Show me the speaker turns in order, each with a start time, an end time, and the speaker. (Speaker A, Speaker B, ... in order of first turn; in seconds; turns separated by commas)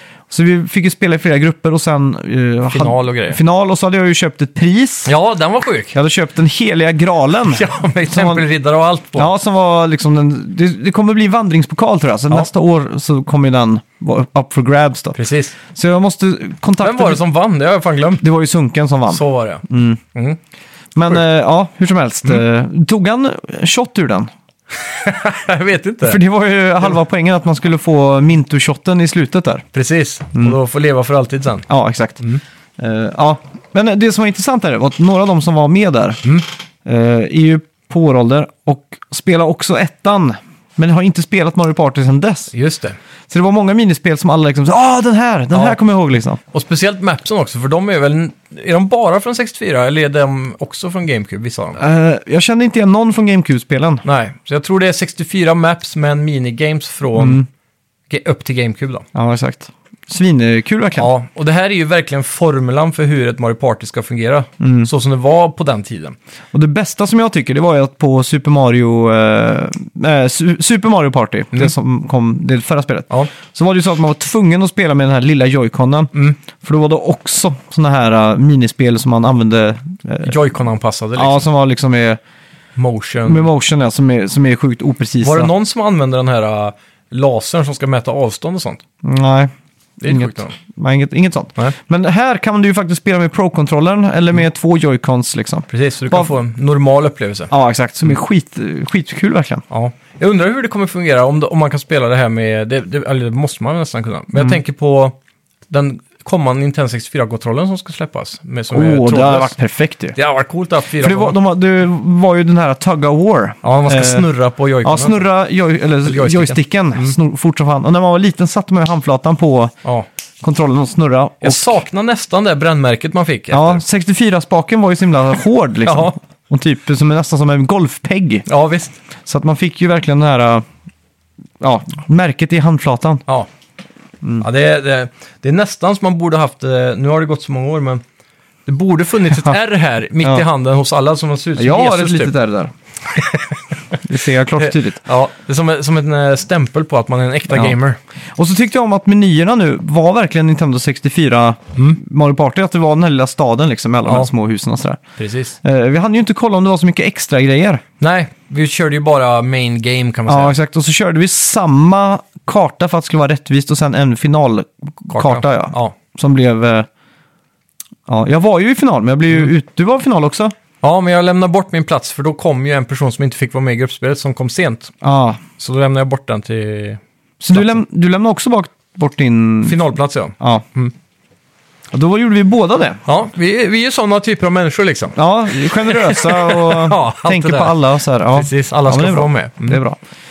Speaker A: 0.3-5.1, Speaker B: 2.7-3.4, Speaker B: 5.0-6.0, Speaker A: 5.9-8.4, Speaker B: 7.5-9.3, Speaker A: 9.2-15.2, Speaker B: 15.1-15.6, Speaker A: 15.7-17.2, Speaker B: 16.8-18.2, Speaker A: 18.2-20.0, Speaker B: 19.1-20.4, Speaker A: 20.9-24.3, Speaker B: 24.7-26.2, Speaker A: 26.0-29.6, Speaker B: 29.7-31.6, Speaker A: 31.7-32.2, Speaker A: 32.8-36.2, Speaker A: 36.8-42.5, Speaker B: 42.5-43.0, Speaker A: 43.3-46.4, Speaker B: 46.5-51.8, Speaker A: 51.8-54.0, Speaker B: 54.0-57.4, Speaker A: 57.2-57.5, Speaker B: 58.1-59.0, Speaker A: 59.1-61.1, Speaker B: 61.0-66.2, Speaker A: 64.6-64.9, Speaker A: 66.5-80.3, Speaker B: 80.2-81.4, Speaker A: 81.2-82.2, Speaker B: 82.8-83.5, Speaker A: 83.2-85.5, Speaker B: 85.2-88.8, Speaker A: 89.0-89.5, Speaker B: 90.0-90.5, Speaker A: 90.0-96.3, Speaker B: 95.7-97.5, Speaker A: 97.5-99.6, Speaker B: 99.7-105.1, Speaker B: 105.7-109.5, Speaker A: 108.7-110.2, Speaker B: 110.1-111.4, Speaker A: 111.0-114.3, Speaker B: 113.6-115.2, Speaker A: 114.8-119.7, Speaker B: 116.0-117.1, Speaker A: 120.4-121.8, Speaker B: 121.4-123.8, Speaker A: 123.5-128.4, Speaker B: 125.8-126.1, Speaker B: 128.5-128.9, Speaker A: 129.2-130.6, Speaker A: 131.6-133.2, Speaker B: 134.4-138.0, Speaker B: 138.7-142.3, Speaker A: 141.6-142.7, Speaker B: 143.1-144.0, Speaker A: 144.0-145.0, Speaker B: 144.6-148.0, Speaker A: 147.5-147.7, Speaker A: 148.3-155.0, Speaker B: 155.2-155.6, Speaker A: 155.6-157.8, Speaker B: 158.0-160.6, Speaker A: 160.3-166.9, Speaker B: 165.1-165.9, Speaker A: 168.1-170.5, Speaker B: 170.8-174.9, Speaker A: 175.0-175.4, Speaker B: 175.6-177.0, Speaker A: 177.4-179.8, Speaker B: 177.5-177.8, Speaker B: 179.6-180.9, Speaker A: 180.4-180.6, Speaker A: 181.9-183.0, Speaker B: 183.1-189.8, Speaker A: 185.2-190.0